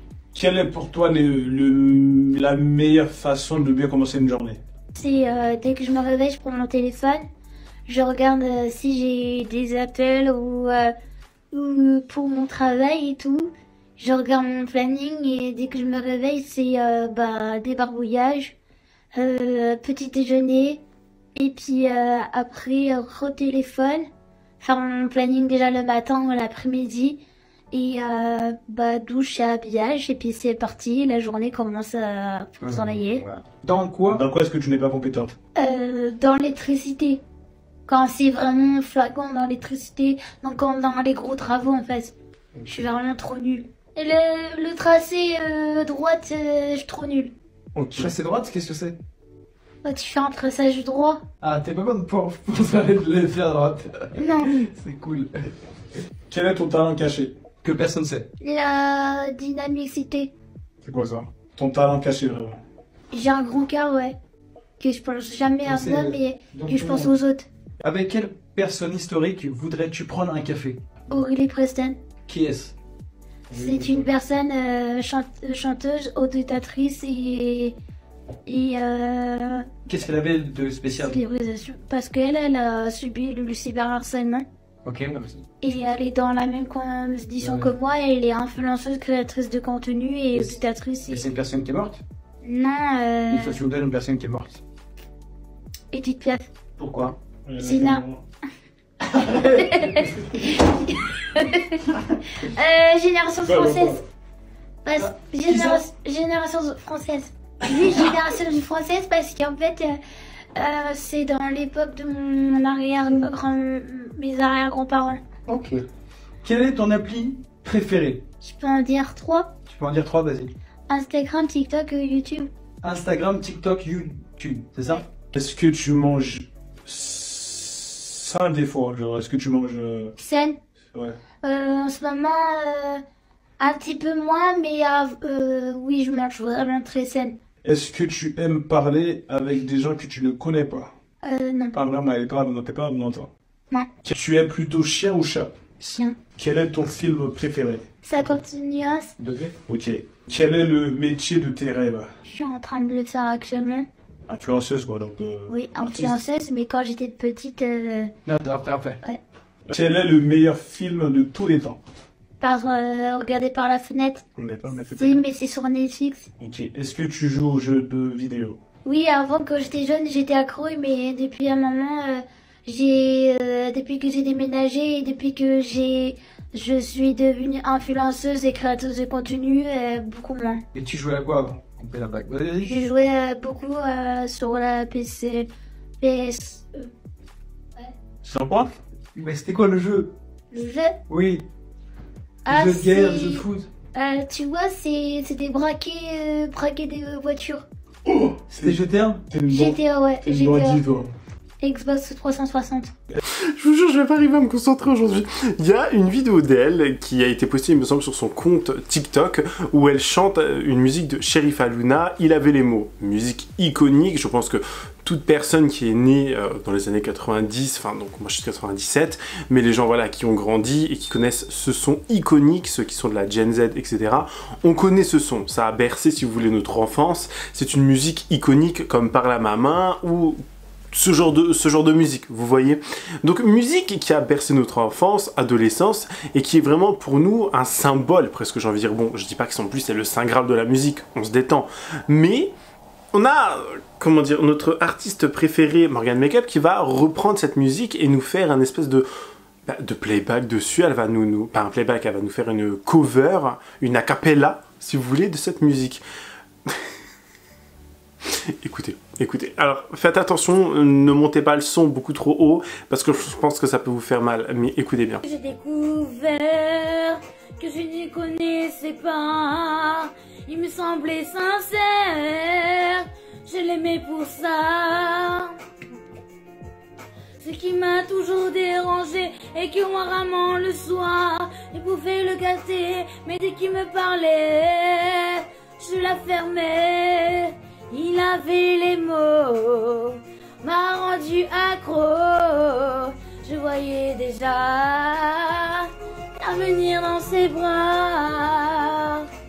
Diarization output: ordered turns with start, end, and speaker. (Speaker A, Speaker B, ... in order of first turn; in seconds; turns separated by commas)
Speaker A: 0.3-4.6, Speaker B: 5.0-7.2, Speaker B: 7.9-10.9, Speaker B: 11.5-18.6, Speaker B: 19.1-20.8, Speaker B: 21.4-24.1, Speaker B: 24.6-33.4, Speaker C: 32.6-34.3, Speaker A: 34.1-35.3, Speaker B: 35.5-37.2, Speaker B: 37.9-42.1, Speaker B: 42.7-47.3, Speaker A: 47.7-48.1, Speaker C: 47.9-49.0, Speaker B: 49.8-51.2, Speaker C: 51.4-55.5, Speaker B: 54.2-54.5, Speaker A: 56.3-57.4, Speaker C: 57.6-58.3, Speaker B: 58.4-60.3, Speaker A: 60.8-62.6, Speaker B: 63.1-64.2, Speaker B: 64.8-67.5, Speaker C: 65.6-67.1, Speaker C: 67.8-70.8, Speaker B: 71.1-72.0, Speaker C: 72.3-72.7, Speaker A: 73.5-74.0, Speaker B: 73.6-77.8, Speaker B: 78.5-79.7, Speaker C: 79.8-81.2, Speaker B: 81.0-84.4, Speaker C: 84.8-85.4, Speaker B: 85.6-91.2, Speaker C: 87.4-87.7, Speaker C: 90.3-92.0, Speaker B: 92.4-93.6, Speaker C: 93.3-94.6, Speaker B: 95.9-96.5, Speaker C: 96.8-97.2, Speaker A: 97.0-98.2, Speaker B: 97.6-98.0, Speaker C: 99.1-99.8, Speaker B: 99.2-104.0, Speaker A: 103.4-104.0, Speaker B: 104.8-110.0, Speaker C: 105.0-105.8, Speaker B: 110.5-115.2, Speaker C: 115.5-115.8, Speaker C: 116.4-118.2, Speaker B: 118.4-119.5, Speaker C: 119.7-120.5, Speaker B: 120.9-122.5, Speaker C: 122.8-125.1, Speaker A: 125.3-130.1, Speaker B: 130.2-130.6, Speaker B: 131.4-133.0, Speaker B: 133.6-137.4, Speaker A: 137.6-140.9, Speaker B: 141.2-141.8, Speaker A: 141.7-143.3, Speaker A: 144.0-145.6, Speaker B: 145.8-146.2, Speaker A: 146.4-147.8, Speaker B: 148.0-149.1, Speaker C: 149.2-149.5, Speaker A: 149.7-152.1, Speaker B: 152.2-153.9, Speaker A: 154.3-155.5, Speaker B: 155.5-158.1, Speaker C: 158.2-159.0, Speaker A: 159.7-161.8, Speaker B: 162.4-164.2, Speaker A: 164.4-165.2, Speaker B: 164.9-166.3, Speaker A: 166.4-168.6, Speaker B: 168.8-180.6, Speaker C: 180.7-182.8, Speaker B: 182.6-185.5, Speaker B: 186.0-186.9, Speaker A: 188.2-188.7, Speaker C: 189.1-190.2, Speaker B: 190.5-191.0, Speaker C: 191.1-191.4, Speaker B: 192.4-197.6, Speaker C: 192.5-193.7, Speaker A: 198.1-201.1, Speaker C: 198.5-199.3, Speaker B: 199.5-200.8, Speaker B: 201.6-202.9, Speaker D: 203.3-230.4, Speaker D: 230.9-242.5, Speaker D: 243.1-249.1, Speaker D: 249.7-256.0, Speaker D: 258.2-265.2, Speaker B: 265.2-275.5, Speaker B: 277.4-299.3